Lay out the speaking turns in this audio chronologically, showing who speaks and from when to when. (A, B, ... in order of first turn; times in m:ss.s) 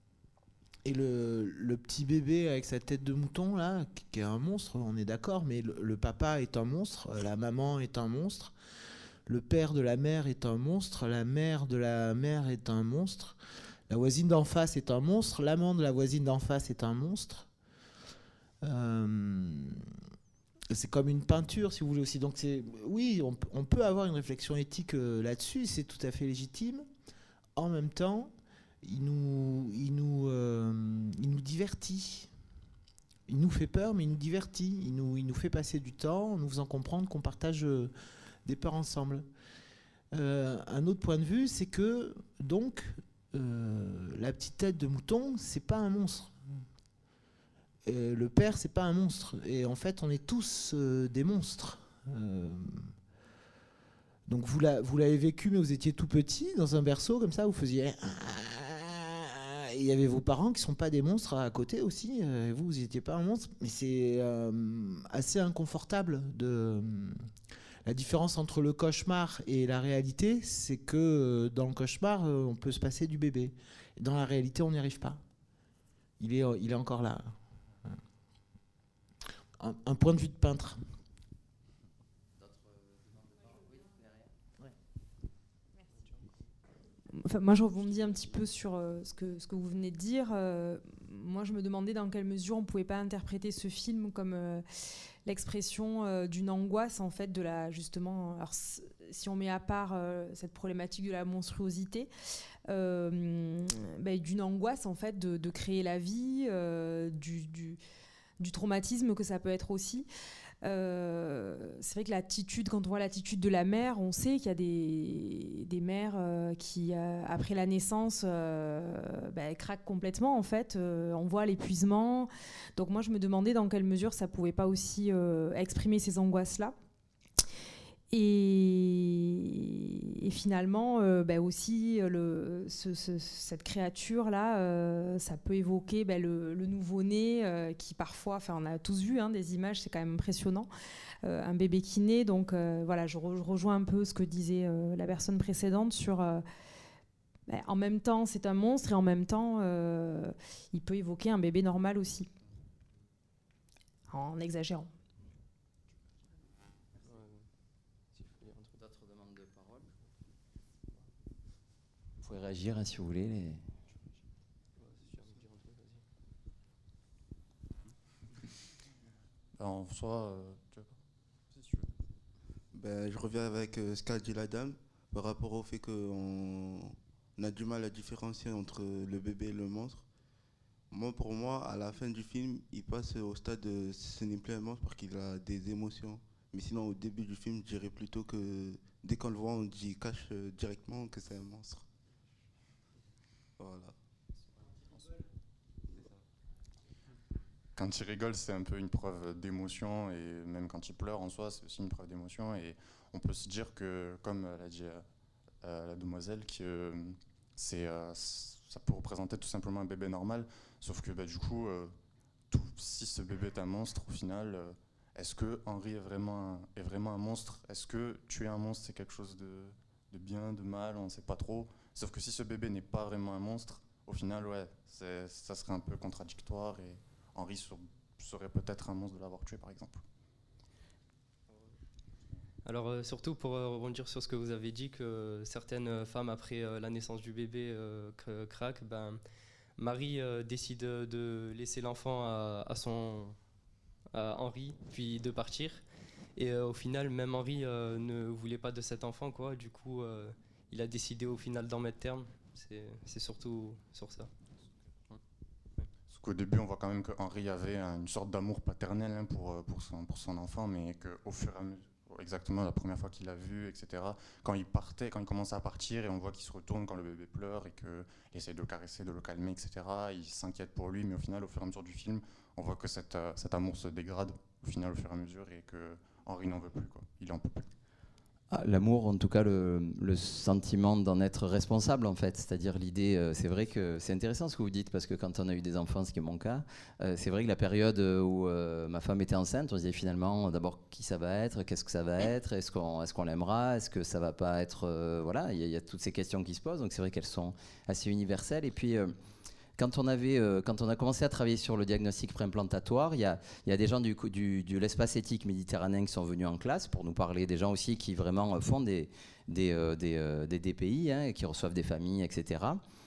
0:00.8-0:08.5 A
0:09.3-0:13.4 A
0:13.9-0:17.5 A
0:18.6-0:19.9 A
0:20.7-0:26.9 A
0:27.6-0:32.3 A
0:33.3-0:37.9 A
0:38.4-0:39.3 A
0:40.1-0:46.4 A
0:47.9-0:52.9 A
0:54.3-1:07.3 A
1:07.9-1:15.2 A
1:16.2-1:18.0 A
1:19.6-1:20.8 A
1:22.4-1:24.2 B
1:27.1-1:34.7 C
1:35.2-1:42.1 C
1:42.7-1:47.8 C
1:48.4-1:50.1 C
1:50.6-2:06.8 C
2:08.1-2:20.7 C
2:21.2-2:26.4 C
2:27.5-2:32.3 C
2:34.1-2:34.9 C
2:37.0-2:37.4 D
2:38.1-2:38.8 D
2:38.8-2:39.9 B
2:42.2-2:43.6 B
2:44.8-2:46.0 D
2:49.6-2:50.9 E
2:52.7-3:00.0 F
3:00.9-3:11.8 F
3:13.6-3:14.0 F
3:17.8-3:25.0 E
3:25.6-3:31.9 E
3:32.5-3:50.0 E
3:52.6-3:59.2 D
3:59.8-4:03.4 D
4:04.1-4:05.8 D
4:06.4-4:14.3 D
4:16.1-4:37.7 E
4:38.5-4:59.2 B
4:59.8-5:12.8 B